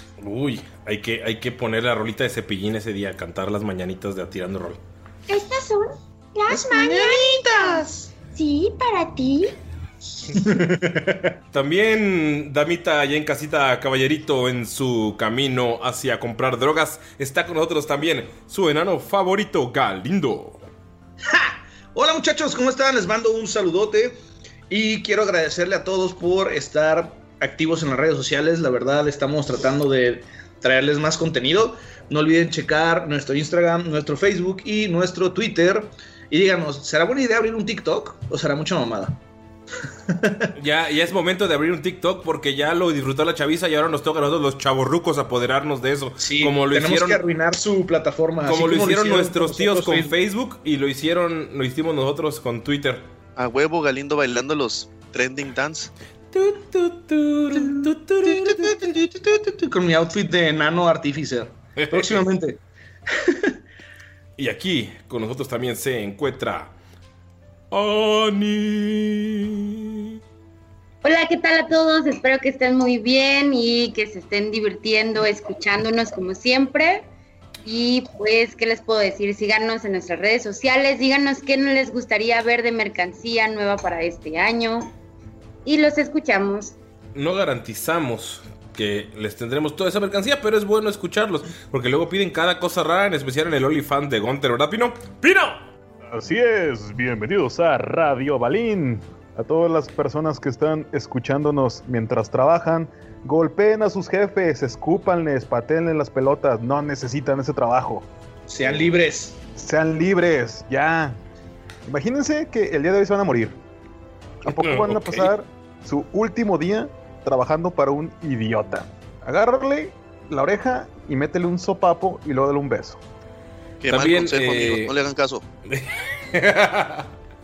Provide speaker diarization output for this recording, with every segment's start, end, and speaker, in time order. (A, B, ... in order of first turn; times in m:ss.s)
0:00.2-0:04.8 A
0:05.3-0:09.6 B
0:06.5-0:08.1 C
0:10.3-0:11.3 C
0:11.5-0:20.6 A
0:21.2-0:24.2 C
0:24.7-0:39.2 C
0:40.1-0:40.5 C
0:40.6-0:47.2 A
0:46.2-0:50.1 C
0:48.4-0:53.1 A
0:53.4-0:55.9 D
0:56.3-0:58.9 A
0:57.6-1:02.6 C
1:01.8-1:02.3 A
1:03.1-1:03.6 C
1:04.4-1:06.7 A
1:07.7-1:10.2 A
1:11.0-1:17.1 E
1:17.6-1:24.9 E
1:25.6-1:26.7 E
1:27.1-1:35.6 A
1:36.1-1:48.1 F
1:48.5-1:49.4 C
1:49.6-1:51.2 F
1:51.8-1:53.6 F
1:54.4-1:55.3 A
1:54.4-2:03.0 F
2:03.8-2:05.4 D
2:03.9-2:05.0 A
2:05.7-2:07.1 A